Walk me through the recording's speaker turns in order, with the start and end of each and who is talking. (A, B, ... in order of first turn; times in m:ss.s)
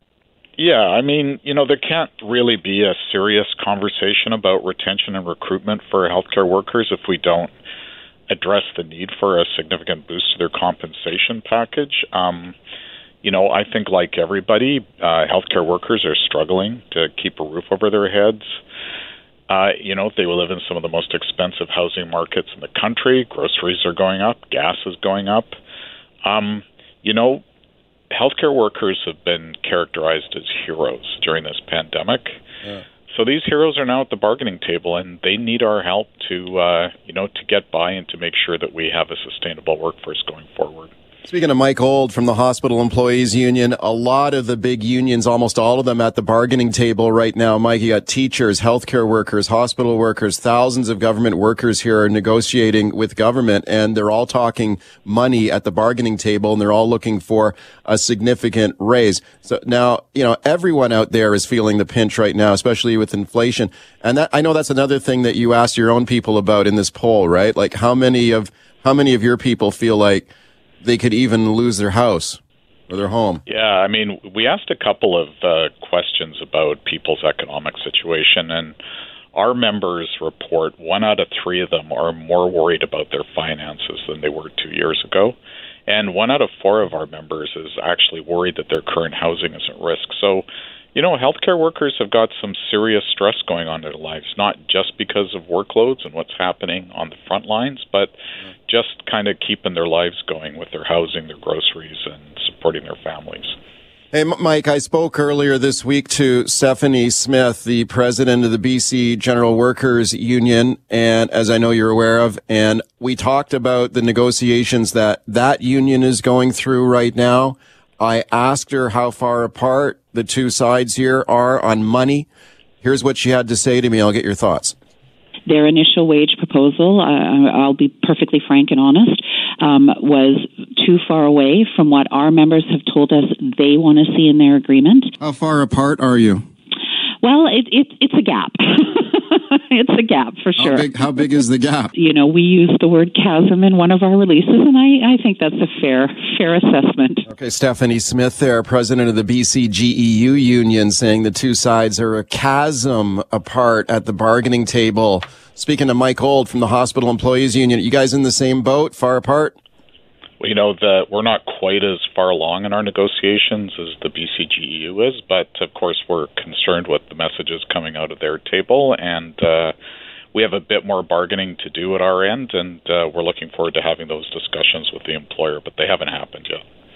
0:00.6-0:07.5 A
0:08.3-0:12.6 A
0:13.2-0:18.6 A
0:19.5-0:25.6 A
0:26.2-0:27.4 A
0:28.1-0:32.4 A
0:33.1-0:40.9 A
0:41.3-1:10.3 B
1:10.8-1:13.4 B
1:13.5-1:18.8 A
1:19.4-1:25.4 A
1:25.9-1:38.2 A
1:38.7-1:43.6 A
1:44.1-2:02.3 B
2:02.8-2:04.8 B
2:05.5-2:15.1 C
2:15.2-2:16.4 B
2:17.2-2:27.3 C
2:20.6-2:21.9 B
2:27.3-2:39.6 B
2:40.4-2:49.7 A
2:50.3-2:56.6 A